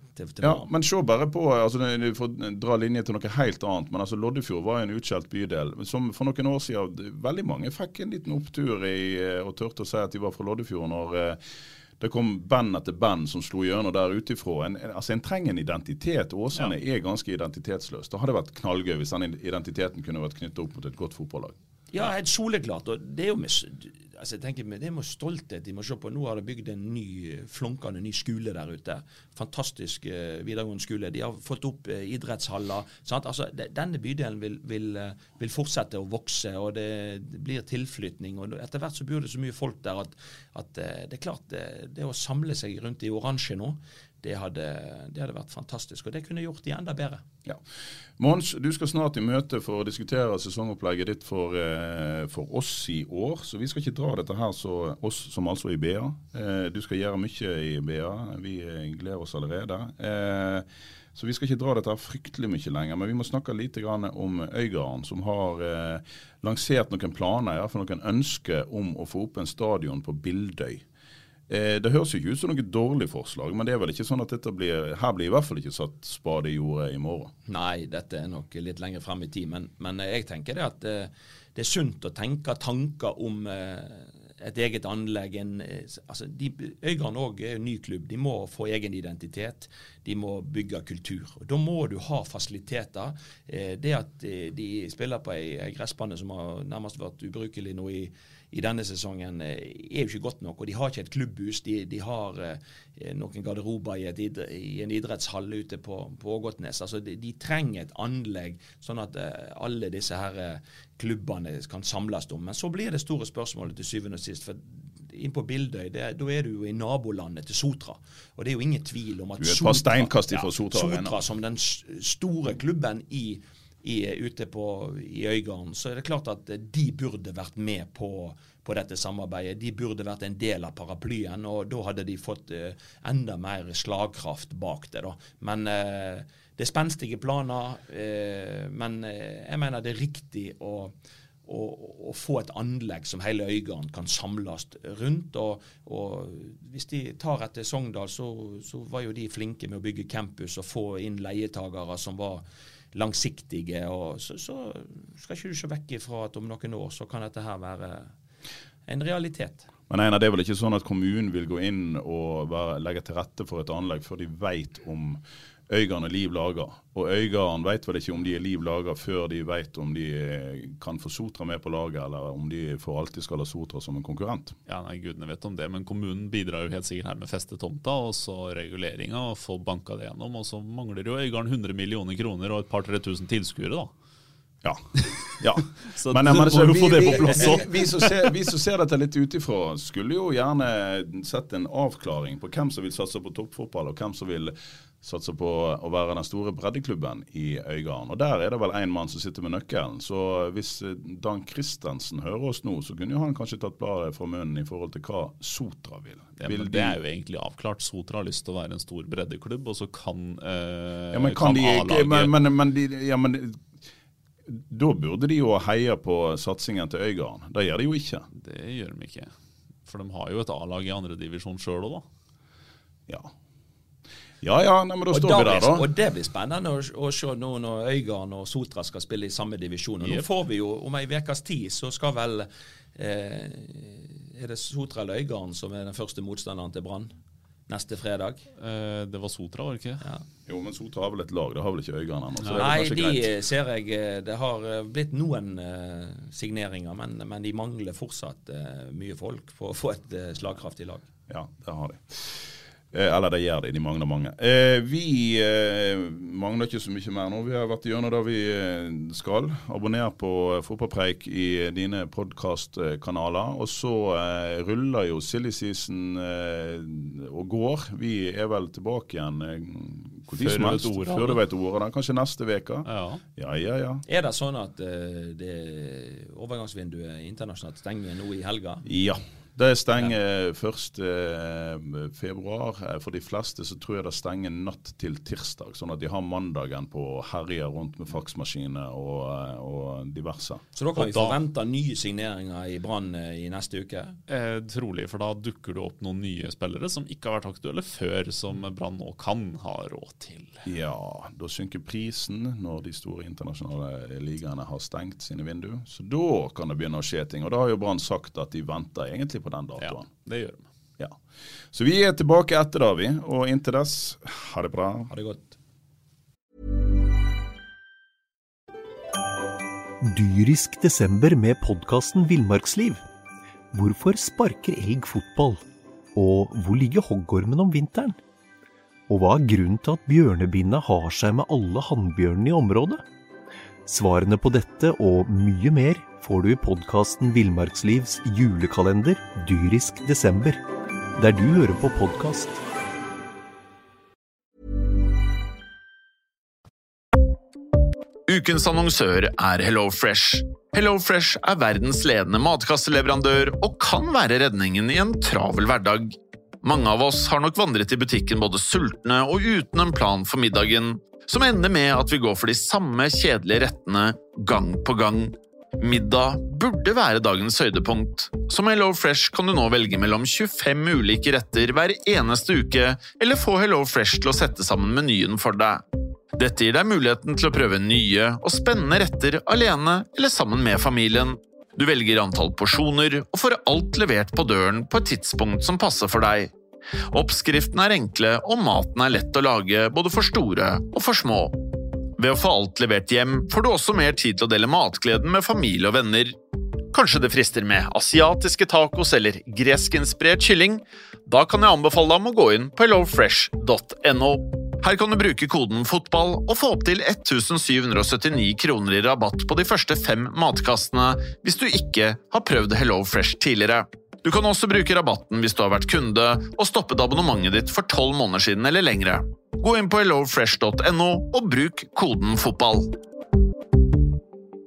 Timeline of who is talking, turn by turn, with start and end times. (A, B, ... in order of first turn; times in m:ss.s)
0:00.2-0:00.7 A
0:00.4-0:11.4 B
0:12.0-0:21.6 B
0:21.9-0:47.2 A
0:48.2-1:10.8 B
1:11.5-1:17.3 B
1:17.5-2:20.9 A
1:59.4-2:01.2 B
2:21.4-2:32.4 A
2:32.9-2:38.1 A
2:38.9-2:39.7 A
2:39.9-2:54.5 B
2:54.7-3:03.9 C
3:04.6-3:27.0 B
3:05.8-3:08.2 C
3:26.4-3:32.3 C
3:31.1-3:33.7 B
3:34.5-3:38.3 B
3:38.3-3:39.3 C
3:39.8-3:42.0 C
3:44.4-3:45.9 B
3:45.1-3:57.1 A
3:57.7-3:58.4 A
3:58.6-4:00.0 C
4:00.5-4:03.3 B
4:02.4-4:02.7 C
4:02.5-4:11.1 A
4:11.3-4:34.0 B
4:30.3-4:31.4 C
4:32.8-4:33.2 C
4:34.1-4:38.8 A
4:38.8-4:50.6 B
4:50.7-4:54.2 A
4:51.0-4:51.4 C
4:54.3-5:00.6 C
5:00.6-5:10.1 B
5:09.8-5:10.6 C
5:11.7-5:15.1 B
5:15.1-5:15.6 A
5:20.0-5:23.0 D
5:23.7-5:25.6 D
5:26.1-5:28.2 D
5:29.1-5:33.0 D
5:33.8-5:40.6 D
5:41.2-5:42.6 D
5:48.3-6:15.8 E
6:16.4-6:26.5 E
6:27.1-6:31.5 E
6:32.2-6:36.3 E
6:36.9-7:02.9 E